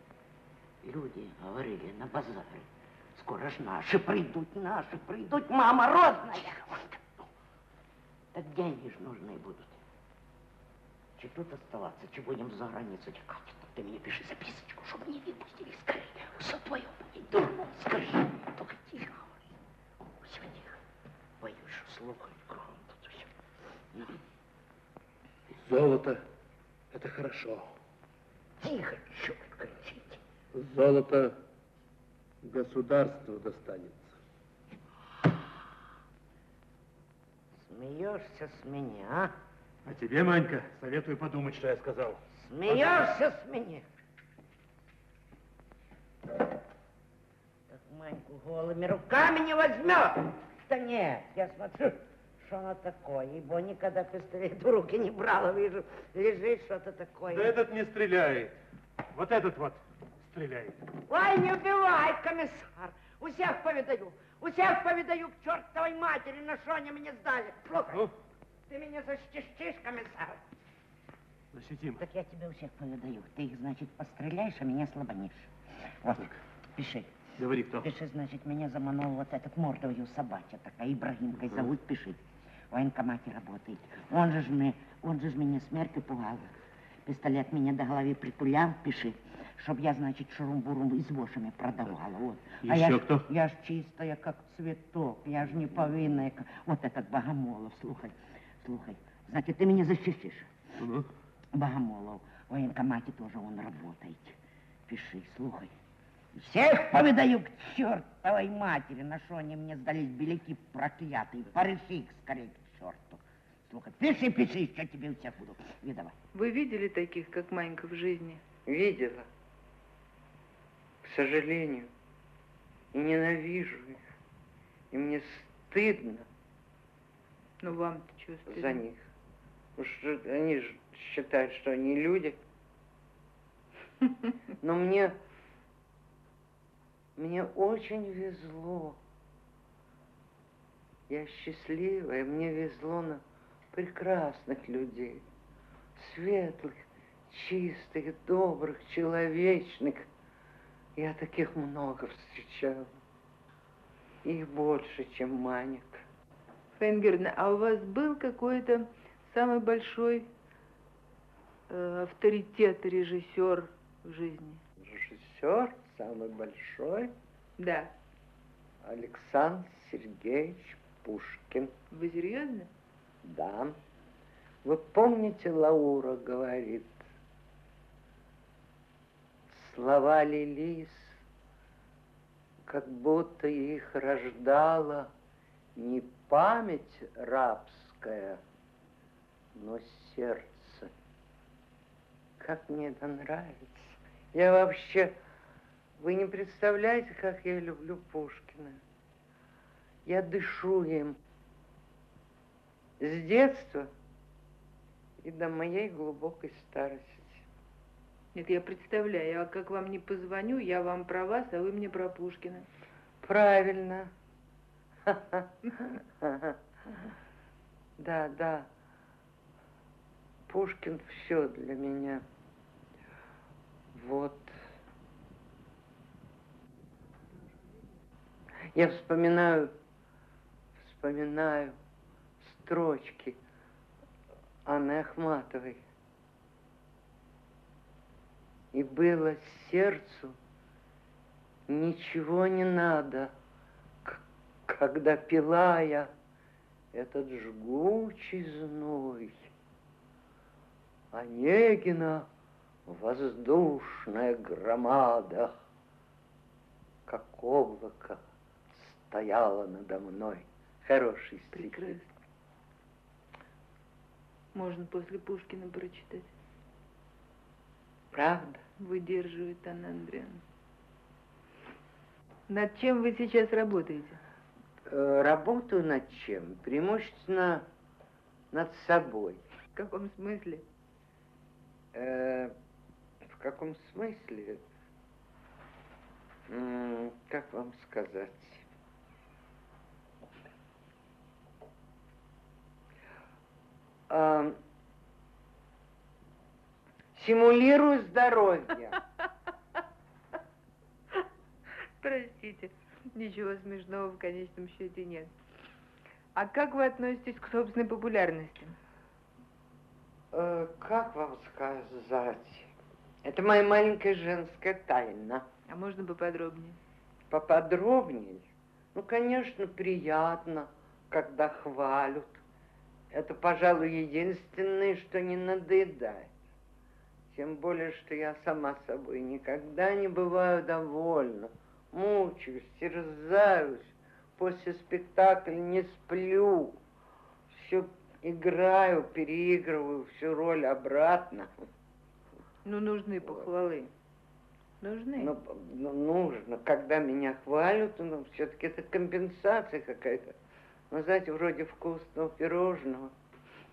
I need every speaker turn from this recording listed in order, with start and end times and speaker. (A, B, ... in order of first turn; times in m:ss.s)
0:00.8-0:07.3 A
0:08.3-0:09.8 A
0:11.2-0:19.4 A
0:20.2-0:20.8 A
0:21.4-0:23.3 A
0:23.9-0:24.2 A
0:25.5-0:26.2 B
0:26.9-0:27.7 B
0:28.6-0:30.2 A
0:30.5-0:31.4 B
0:32.4-0:34.1 B
0:37.6-0:39.3 A
0:39.8-0:42.9 B
0:42.4-0:43.8 A
0:47.7-0:57.5 A
0:57.3-0:58.6 B
0:59.1-1:00.8 B
1:01.1-1:08.1 A
1:08.7-1:10.4 A
1:11.5-1:12.0 B
1:12.0-1:15.5 A
1:16.0-1:17.1 A
1:17.4-1:17.9 B
1:17.8-1:22.2 A
1:22.7-1:26.6 A
1:27.1-1:40.5 A
1:32.6-1:33.3 B
1:40.8-1:41.1 B
1:41.5-1:44.4 A
1:44.9-1:45.7 A
1:46.4-1:56.1 A
1:56.3-1:58.4 C
1:58.7-1:59.3 D
2:01.0-2:01.9 D
2:02.9-2:04.0 D
2:04.9-2:06.3 D
2:07.6-2:08.8 C
2:08.5-2:09.1 D
2:09.8-2:12.4 D
2:14.6-2:15.2 D
2:17.2-2:19.0 D
2:21.1-2:25.2 D
2:26.0-2:30.1 D
2:31.0-2:33.0 D
2:34.2-2:36.1 D
2:36.8-2:40.3 C
2:41.7-2:44.6 C
2:44.8-2:47.1 D
2:47.6-2:47.9 C
2:48.8-2:51.7 D
2:51.9-2:52.7 C
2:53.2-2:53.8 D
2:54.6-2:57.0 D
2:59.5-3:01.2 D
3:02.7-3:05.1 D
3:05.8-3:08.4 D
3:09.5-3:10.9 D
3:12.4-3:15.2 D
3:16.0-3:18.8 D
3:20.0-3:21.2 D
3:23.0-3:23.9 D
3:25.2-3:27.5 D
3:28.3-3:32.7 C
3:33.2-3:34.1 D
3:35.0-3:37.0 D
3:38.0-3:38.7 D
3:40.5-3:42.2 D
3:43.9-3:44.6 D
3:48.7-3:49.7 D
3:50.8-3:51.8 D
3:52.4-3:53.4 D
3:54.7-3:55.8 D
3:58.7-4:00.4 D
4:01.7-4:03.3 D
4:04.0-4:06.1 D
4:06.9-4:09.5 D
4:11.1-4:12.3 D
4:12.9-4:15.5 D
4:17.1-4:18.2 D
4:18.7-4:22.0 D
4:21.5-4:22.1 C
4:24.5-4:26.3 C
4:28.1-4:28.6 D
4:28.8-4:30.4 C
4:32.5-4:34.2 C
4:34.9-4:37.7 D
4:38.5-4:39.4 D
4:39.8-4:40.6 C
4:41.9-4:42.5 D
4:43.2-4:44.6 D
4:46.5-4:48.7 D
4:54.1-4:54.6 D
4:57.2-4:59.0 D
5:02.0-5:05.3 C
5:06.4-5:08.8 C
5:10.3-5:12.7 D
5:13.2-5:15.5 D
5:15.7-5:16.8 C
5:17.3-5:22.4 D
5:23.1-5:26.3 D
5:27.3-5:36.8 D
5:37.5-5:41.5 D
5:42.6-5:43.9 C
5:44.8-5:45.3 C
5:45.2-5:50.4 D
5:50.9-5:53.1 D